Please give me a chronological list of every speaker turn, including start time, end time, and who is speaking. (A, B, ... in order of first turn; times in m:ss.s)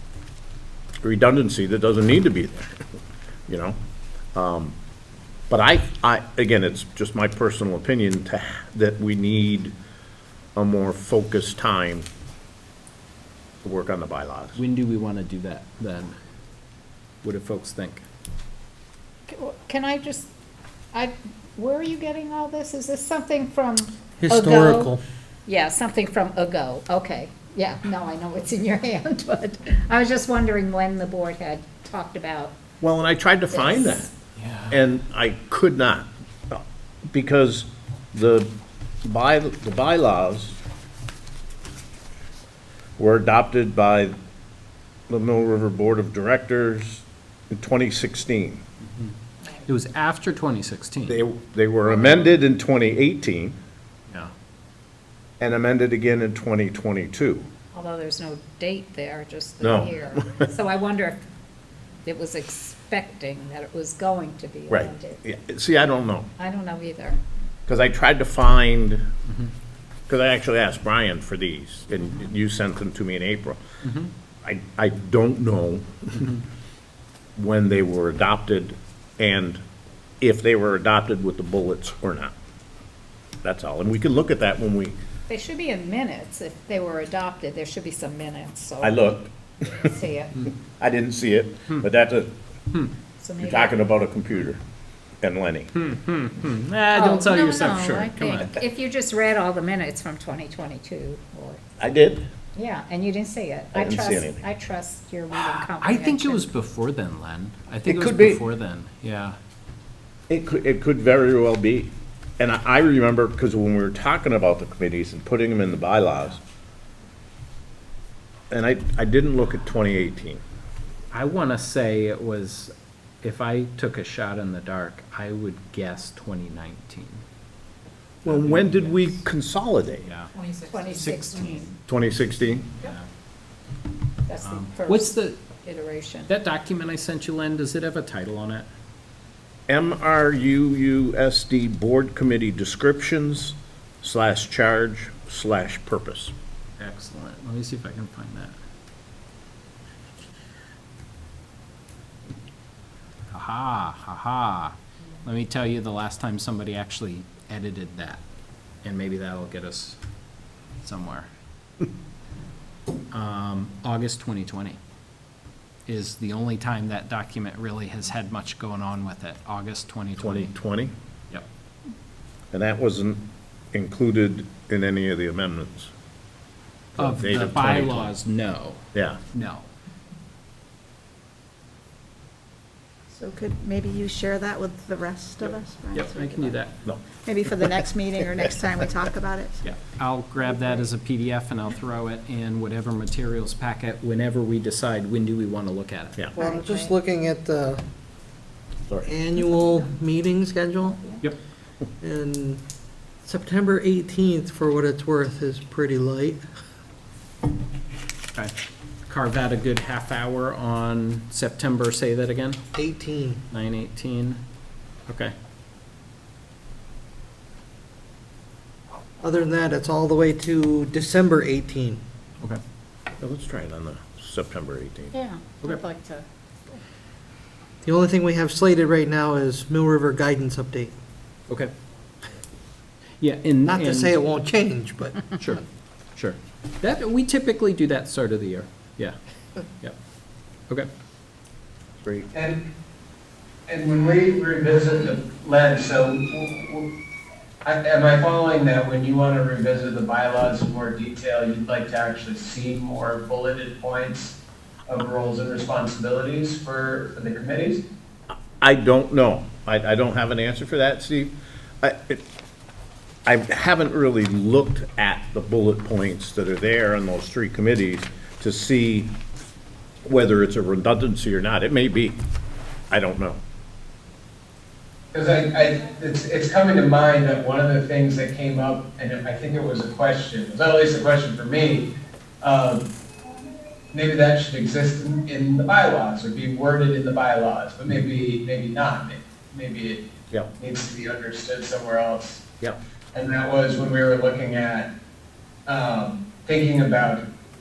0:01.0-0:02.8 A
0:03.5-0:03.8 A
0:04.3-0:04.8 A
0:05.5-0:09.7 A
0:10.6-0:12.1 A
0:13.6-0:14.6 A
0:14.6-0:16.2 B
0:17.2-0:18.0 B
0:19.3-0:20.3 C
0:20.9-0:24.9 C
0:24.2-0:25.0 D
0:25.5-0:32.6 C
0:32.8-0:34.1 A
0:33.5-0:34.1 C
0:34.4-0:34.7 B
0:34.7-0:38.5 A
0:39.0-0:40.6 A
0:43.0-0:44.2 A
0:45.1-0:48.6 A
0:49.7-0:51.2 B
0:51.1-0:53.6 A
0:55.4-0:57.4 A
0:57.8-1:01.2 C
0:59.6-1:00.5 A
1:02.0-1:05.2 C
1:04.7-1:06.3 A
1:06.4-1:07.2 C
1:07.7-1:09.1 A
1:10.1-1:13.6 A
1:13.8-1:14.1 B
1:14.4-1:16.3 A
1:17.4-1:19.6 A
1:20.2-1:22.3 A
1:23.4-1:25.0 A
1:25.3-1:29.2 C
1:28.8-1:29.9 A
1:29.8-1:30.4 C
1:30.8-1:32.3 A
1:33.2-1:33.8 C
1:33.4-1:34.6 A
1:35.2-1:35.7 A
1:35.8-1:38.6 B
1:36.9-1:41.6 C
1:41.8-1:42.3 A
1:42.6-1:46.5 C
1:43.7-1:44.4 A
1:45.3-1:49.4 B
1:47.9-1:48.4 A
1:50.3-1:56.4 A
1:58.5-2:00.4 A
2:01.1-2:07.2 B
2:08.2-2:09.2 B
2:08.2-2:10.1 A
2:10.0-2:10.3 B
2:10.7-2:11.7 C
2:10.9-2:11.8 B
2:11.9-2:12.7 A
2:12.8-2:13.1 B
2:14.2-2:15.1 C
2:14.4-2:15.4 B
2:15.6-2:16.3 C
2:16.3-2:18.7 B
2:19.7-2:26.3 A
2:26.8-2:28.6 B
2:33.3-2:38.2 B
2:38.8-2:40.0 B
2:40.8-2:41.3 B
2:43.1-2:44.8 B
2:45.9-2:50.5 B
2:50.2-2:50.9 A
2:52.5-2:55.9 A
2:57.0-2:58.1 A
2:57.0-2:59.7 B
2:58.9-2:59.2 A
3:03.1-3:06.6 E
3:05.9-3:06.8 B
3:07.1-3:09.6 E
3:09.6-3:16.2 B
3:16.4-3:16.9 E
3:16.4-3:17.8 D
3:19.0-3:21.1 D
3:22.0-3:22.6 D
3:23.2-3:26.4 D
3:29.1-3:32.6 B
3:32.7-3:33.4 D
3:33.5-3:34.4 B
3:35.1-3:35.3 B
3:39.2-3:42.0 D
3:43.2-3:45.1 A
3:47.8-3:51.0 D
3:53.2-3:54.2 B
3:53.6-3:55.2 D
3:55.4-3:55.6 B
3:56.2-3:59.2 B
4:02.0-4:02.3 A
4:02.3-4:02.6 F
4:03.7-4:06.9 F
4:07.6-4:17.8 F
4:18.6-4:22.2 A
4:23.3-4:29.1 A
4:30.0-4:32.2 A
4:32.9-4:33.4 A
4:35.1-4:42.9 F
4:43.9-4:52.5 F
4:53.1-4:54.9 F
4:55.7-4:57.2 F